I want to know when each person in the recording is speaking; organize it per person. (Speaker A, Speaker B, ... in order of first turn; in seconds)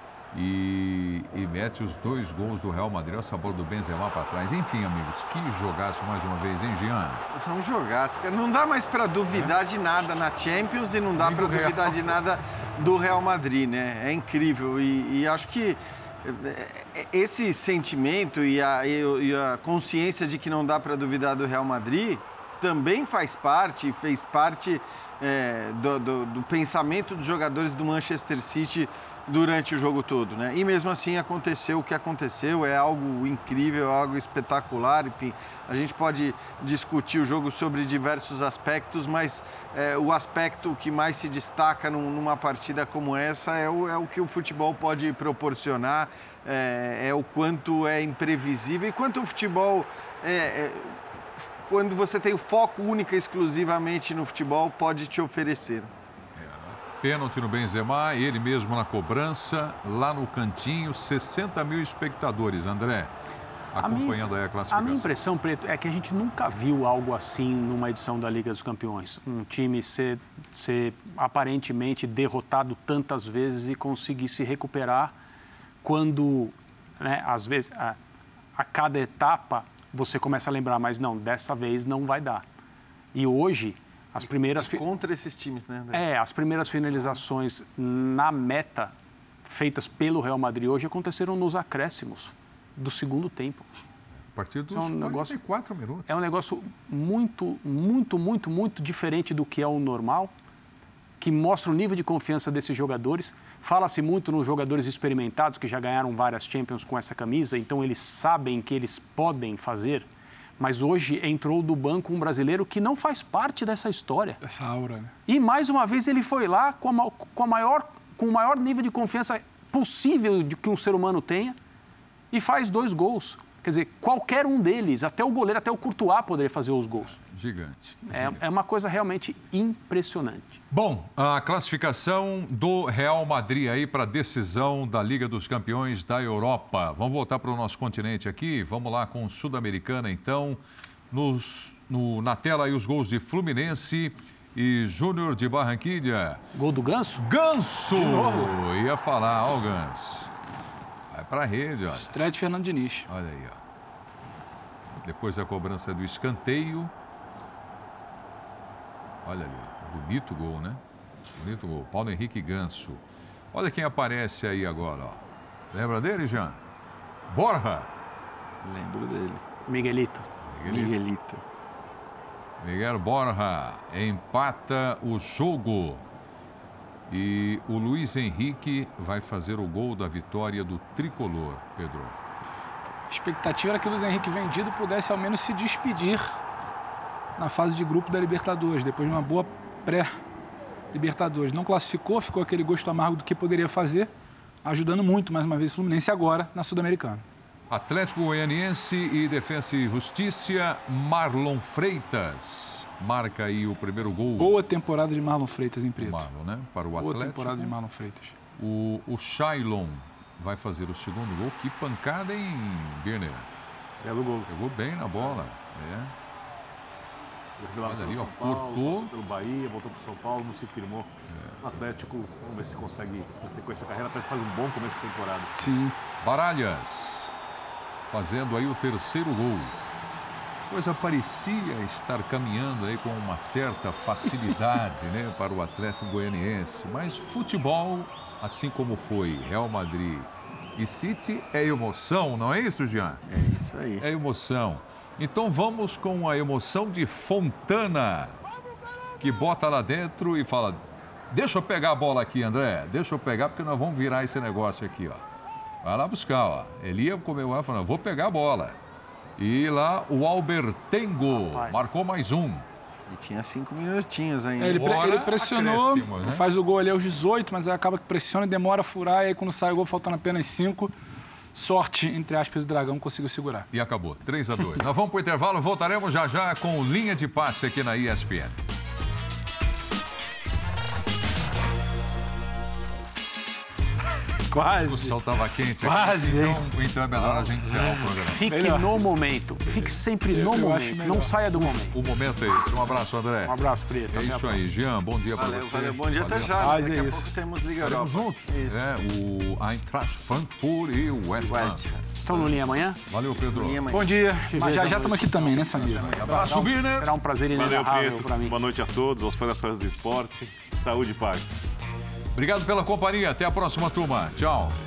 Speaker A: 0.3-7.3, 11.2-12.1, 56.4-63.1, 63.7-65.1, 94.3-96.1, 127.2-128.4, 130.7-146.4, 147.2-150.3, 151.1-152.1, 153.1-153.6, 155.0-156.9, 159.2-160.8, 161.3-163.0, 163.5-166.6, 167.3-167.9, 170.4-171.0, 172.6-176.1, 177.1-182.2, 197.7-204.6, 206.0-207.8, 208.6-213.5, 214.5-216.1, 217.9-219.1, 221.3-221.6, 226.2-227.3, 228.1-229.8, 230.7-243.2, 244.0-248.4, 249.2-255.2, 255.8-258.8, 259.4-262.7, 264.7-266.5, 273.7-278.6, 284.8-288.4, 291.9-296.8, 297.8-303.8, 306.2-307.1, 312.3-314.8
Speaker B: 7.3-51.0, 51.6-55.9, 84.6-86.1, 86.8-87.2, 168.6-169.4, 170.7-171.4, 243.3-244.1, 263.1-265.0, 295.4-298.8, 301.4-302.1, 303.5-304.3, 306.2-306.5
Speaker C: 63.8-75.2, 75.8-78.0, 78.6-82.4, 83.1-84.8, 85.9-88.9, 89.5-93.7, 94.7-95.4, 96.1-100.3, 101.2-110.1, 110.6-114.4, 115.3-121.6, 122.3-127.2, 128.1-130.6, 146.5-147.3, 169.7-170.3, 261.5-261.9, 288.2-292.0, 293.4-294.7, 302.2-303.0, 304.5-308.6
Speaker D: 114.4-115.1, 147.9-148.6, 152.0-153.1, 183.1-186.4, 187.4-190.1, 190.9-194.1, 194.6-197.2, 204.4-206.3, 207.0-208.3, 225.6-225.9, 264.6-270.9, 271.6-273.7, 284.5-285.1, 285.8-286.6, 287.4-288.9, 290.3-291.8, 296.6-297.2, 303.9-306.6
Speaker E: 214.0-214.5, 217.6-221.1, 221.6-225.6, 307.5-311.6